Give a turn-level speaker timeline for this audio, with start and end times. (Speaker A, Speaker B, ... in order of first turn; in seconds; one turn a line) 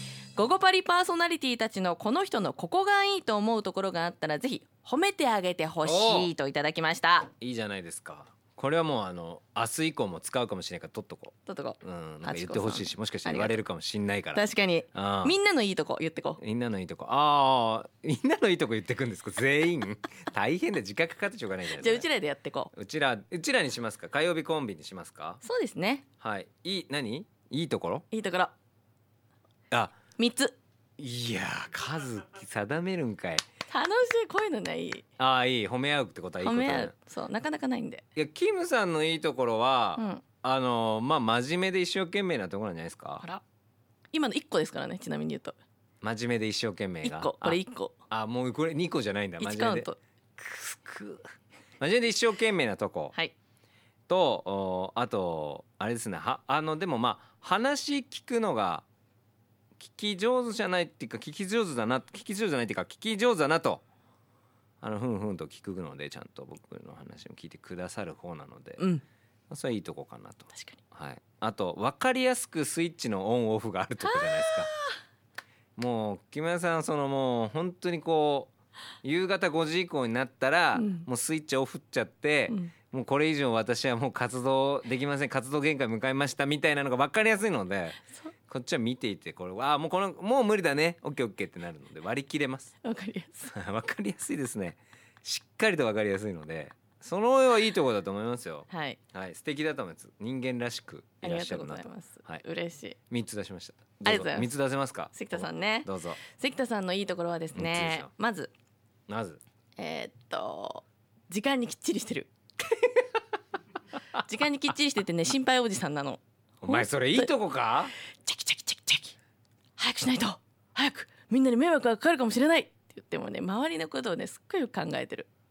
Speaker A: 0.4-7.3
Speaker B: 5.8-6.3
Speaker B: 7.4-14.4
Speaker A: 11.5-13.6
Speaker A: 14.3-16.4
Speaker B: 14.9-15.4
Speaker B: 16.4-22.1
Speaker A: 21.7-22.7
Speaker B: 22.7-25.4
Speaker A: 25.4-26.1
Speaker B: 26.2-28.1
Speaker A: 28.1-28.5
Speaker B: 29.7-30.0
Speaker A: 30.2-30.6
Speaker B: 31.0-33.4
Speaker A: 33.7-35.0
Speaker B: 35.2-36.9
Speaker A: 36.4-38.0
Speaker B: 38.1-43.2
Speaker A: 40.0-40.2
Speaker A: 44.1-45.6
Speaker B: 46.0-53.1
Speaker A: 47.0-48.0
Speaker A: 49.4-50.0
Speaker B: 54.1-58.9
Speaker B: 59.8-63.8
Speaker B: 64.8-68.9
Speaker B: 69.5-74.7
Speaker A: 70.5-70.8
Speaker A: 74.0-75.0
Speaker B: 75.8-78.5
Speaker B: 79.0-92.7
Speaker A: 80.7-81.1
Speaker A: 92.8-93.5
Speaker B: 93.5-102.4
Speaker A: 98.7-99.0
Speaker A: 101.2-103.0
Speaker B: 103.1-106.2
Speaker A: 104.0-104.5
Speaker A: 105.1-108.5
Speaker B: 107.5-108.1
Speaker B: 109.1-109.4
Speaker A: 109.8-112.3
Speaker B: 112.6-113.1
Speaker A: 114.2-117.3
Speaker B: 116.6-117.9
Speaker A: 118.2-119.2
Speaker A: 119.8-125.3